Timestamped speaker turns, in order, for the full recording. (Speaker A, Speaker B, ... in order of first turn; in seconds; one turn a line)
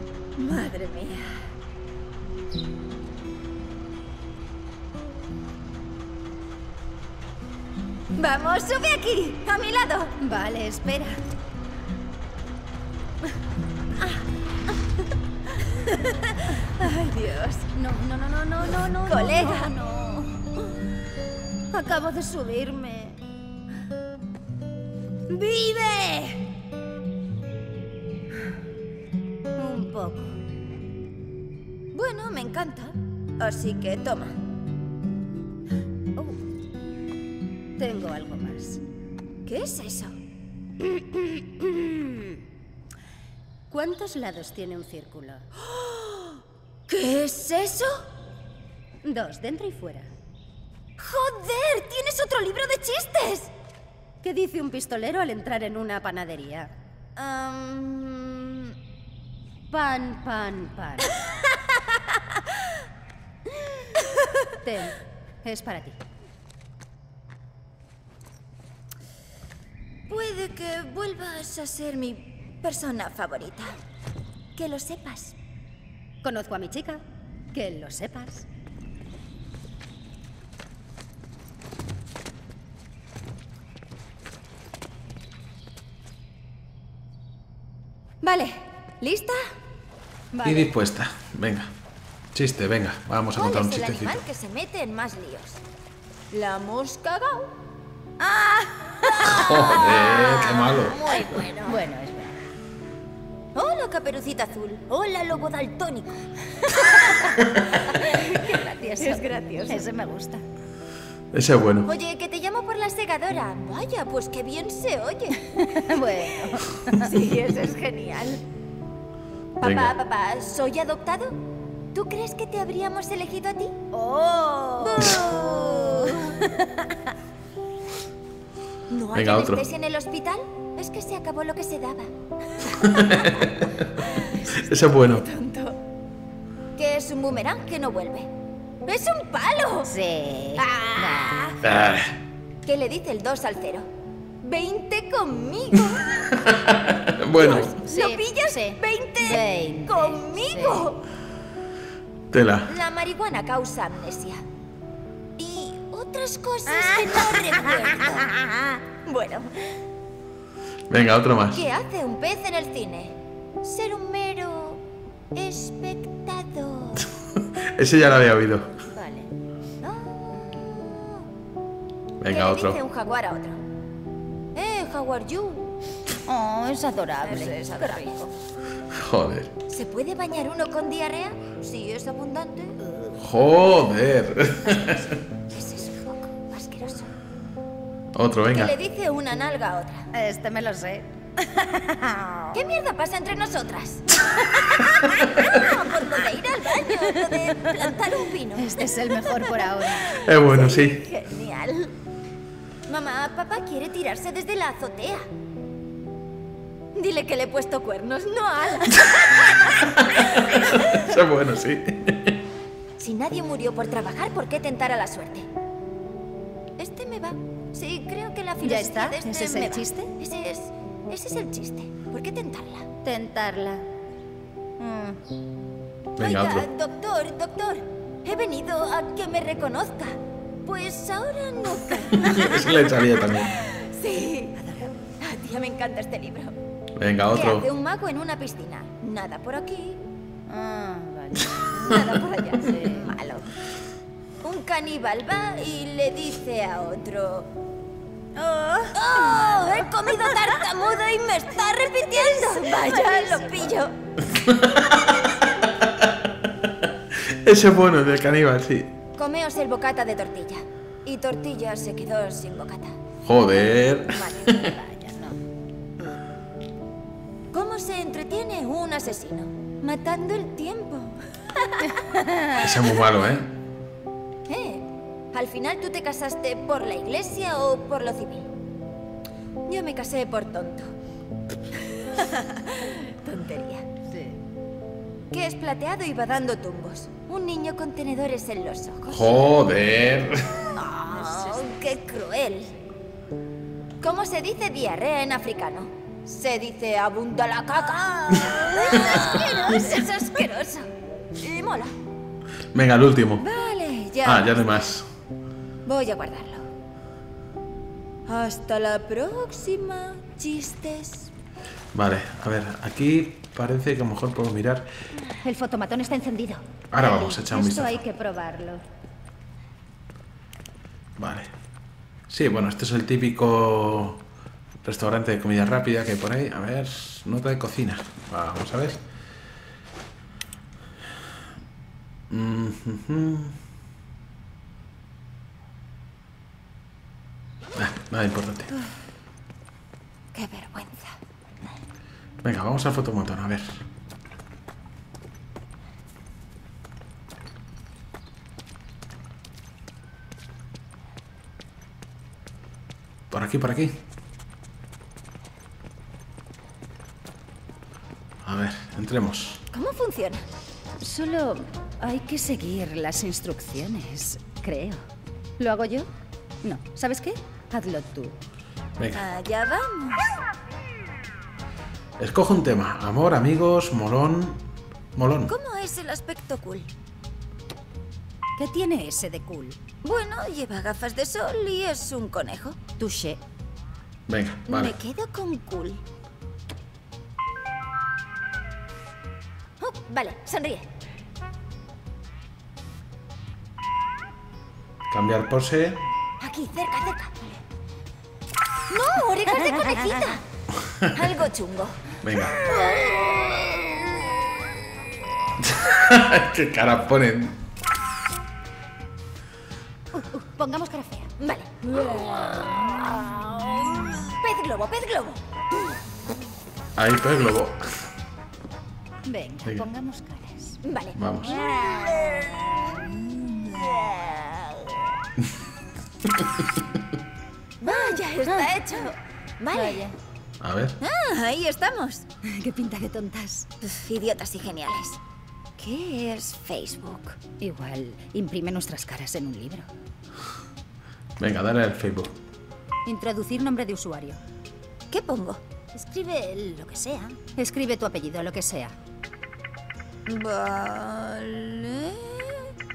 Speaker A: 0.4-1.4
Speaker A: 8.2-10.2
Speaker B: 10.2-11.2
Speaker A: 15.9-17.7
Speaker B: 17.8-20.3
Speaker A: 19.1-19.8
Speaker B: 21.7-23.2
Speaker B: 25.3-26.4
Speaker B: 29.6-30.3
Speaker A: 31.9-34.4
Speaker B: 36.2-36.4
Speaker B: 37.8-38.8
Speaker A: 39.5-40.2
Speaker B: 40.9-42.4
Speaker B: 43.7-45.5
Speaker A: 45.6-48.1
Speaker B: 49.0-50.1
Speaker A: 51.0-53.5
Speaker B: 54.2-56.7
Speaker A: 57.2-58.7
Speaker B: 59.7-61.2
Speaker A: 63.9-64.4
Speaker B: 64.6-66.0
Speaker A: 70.1-73.8
Speaker A: 74.6-75.3
Speaker B: 76.2-77.0
Speaker B: 77.5-78.5
Speaker A: 88.2-89.5
Speaker B: 90.3-90.7
Speaker C: 90.4-91.7
Speaker C: 92.3-94.2
Speaker A: 93.3-95.6
Speaker A: 96.3-97.6
Speaker A: 98.2-101.8
Speaker C: 99.2-101.0
Speaker B: 101.7-102.5
Speaker A: 103.5-109.9
Speaker B: 106.8-110.4
Speaker C: 111.3-111.9
Speaker A: 111.9-115.5
Speaker B: 115.5-117.1
Speaker A: 116.5-118.4
Speaker A: 119.6-121.4
Speaker C: 119.6-120.0
Speaker A: 121.9-126.5
Speaker B: 124.8-126.8
Speaker C: 125.0-125.2
Speaker A: 128.9-135.8
Speaker C: 129.1-129.6
Speaker C: 132.8-135.3
Speaker A: 136.8-138.3
Speaker A: 138.9-139.9
Speaker B: 139.9-141.5
Speaker A: 140.6-141.7
Speaker C: 141.6-142.2
Speaker A: 142.7-143.9
Speaker A: 144.4-146.4
Speaker C: 146.3-147.8
Speaker A: 147.3-151.0
Speaker B: 147.8-150.9
Speaker C: 152.3-152.7
Speaker A: 152.7-154.4
Speaker A: 155.4-159.8
Speaker B: 156.7-157.9
Speaker C: 160.9-161.7
Speaker A: 161.5-164.8
Speaker A: 165.3-167.1
Speaker C: 167.3-168.7
Speaker B: 168.9-169.3
Speaker A: 169.8-171.3
Speaker C: 172.2-172.8
Speaker A: 172.2-173.6
Speaker A: 174.6-175.8
Speaker B: 176.3-178.2
Speaker A: 177.2-178.3
Speaker C: 178.9-179.5
Speaker A: 179.7-182.8
Speaker C: 183.2-185.2
Speaker A: 185.5-187.1
Speaker C: 188.1-188.8
Speaker A: 188.5-190.1
Speaker B: 190.1-192.5
Speaker A: 192.5-201.9
Speaker B: 194.8-195.2
Speaker B: 196.9-197.9
Speaker B: 198.6-200.1
Speaker C: 200.2-201.1
Speaker A: 202.9-205.3
Speaker A: 206.9-211.0
Speaker C: 209.7-212.4
Speaker A: 213.0-215.5
Speaker A: 216.8-222.9
Speaker B: 218.6-220.2
Speaker B: 223.1-223.9
Speaker B: 224.8-225.2
Speaker C: 226.2-226.7
Speaker A: 226.2-234.6
Speaker C: 232.1-233.6
Speaker B: 234.6-235.0
Speaker A: 235.2-236.6
Speaker C: 237.0-237.7
Speaker A: 237.3-240.0
Speaker B: 240.5-243.1
Speaker A: 241.9-243.5
Speaker A: 244.4-247.5
Speaker B: 248.4-250.5
Speaker A: 248.9-253.9
Speaker B: 252.2-253.5
Speaker C: 254.3-255.2
Speaker C: 257.1-258.9
Speaker A: 259.2-263.0
Speaker C: 263.2-264.7
Speaker A: 264.1-264.6
Speaker B: 264.6-265.4
Speaker A: 267.5-272.1
Speaker C: 272.6-273.6
Speaker A: 272.6-272.9
Speaker A: 274.5-278.5
Speaker A: 279.7-280.9
Speaker A: 281.8-283.9
Speaker B: 284.1-284.4
Speaker A: 285.3-289.3
Speaker C: 289.1-290.6
Speaker A: 290.7-292.8
Speaker B: 291.2-291.5
Speaker A: 294.0-301.9
Speaker C: 299.0-300.0
Speaker C: 302.7-303.5
Speaker A: 303.4-304.8
Speaker C: 304.2-305.1
Speaker A: 305.9-306.7
Speaker A: 308.3-311.3
Speaker C: 311.9-314.9
Speaker B: 315.4-318.8
Speaker C: 316.9-318.0
Speaker C: 321.2-321.5
Speaker C: 322.3-324.2
Speaker C: 324.8-329.0
Speaker C: 332.3-333.6
Speaker C: 337.8-338.7
Speaker A: 340.3-341.1
Speaker C: 342.4-343.8
Speaker C: 353.3-354.0
Speaker C: 358.4-359.6
Speaker A: 359.7-360.5
Speaker B: 361.0-365.1
Speaker B: 365.6-366.1
Speaker B: 366.6-368.4
Speaker C: 369.0-369.2
Speaker A: 369.1-370.4
Speaker C: 372.2-374.6
Speaker C: 375.1-375.5
Speaker A: 375.5-376.9
Speaker B: 378.6-379.8
Speaker A: 380.0-382.8
Speaker B: 383.0-383.4
Speaker C: 384.3-385.0
Speaker A: 384.7-386.0
Speaker A: 389.8-390.9
Speaker C: 395.1-396.1
Speaker A: 396.4-397.6
Speaker A: 398.9-400.4
Speaker C: 400.9-401.2
Speaker A: 401.1-404.8
Speaker C: 402.2-402.7
Speaker C: 405.6-407.6
Speaker B: 410.1-411.3
Speaker A: 411.4-415.4
Speaker C: 416.9-418.1
Speaker B: 419.2-420.8
Speaker A: 420.8-425.1
Speaker C: 421.2-421.5
Speaker C: 426.3-426.6
Speaker A: 427.8-430.1
Speaker B: 428.4-428.9
Speaker B: 429.7-430.2
Speaker C: 430.6-431.0
Speaker A: 431.0-432.2
Speaker B: 432.4-433.7
Speaker A: 433.8-435.2
Speaker A: 435.8-437.4
Speaker B: 437.6-439.9
Speaker C: 441.4-442.4
Speaker B: 443.1-444.4
Speaker A: 445.1-445.6
Speaker B: 445.9-449.0
Speaker A: 450.3-452.7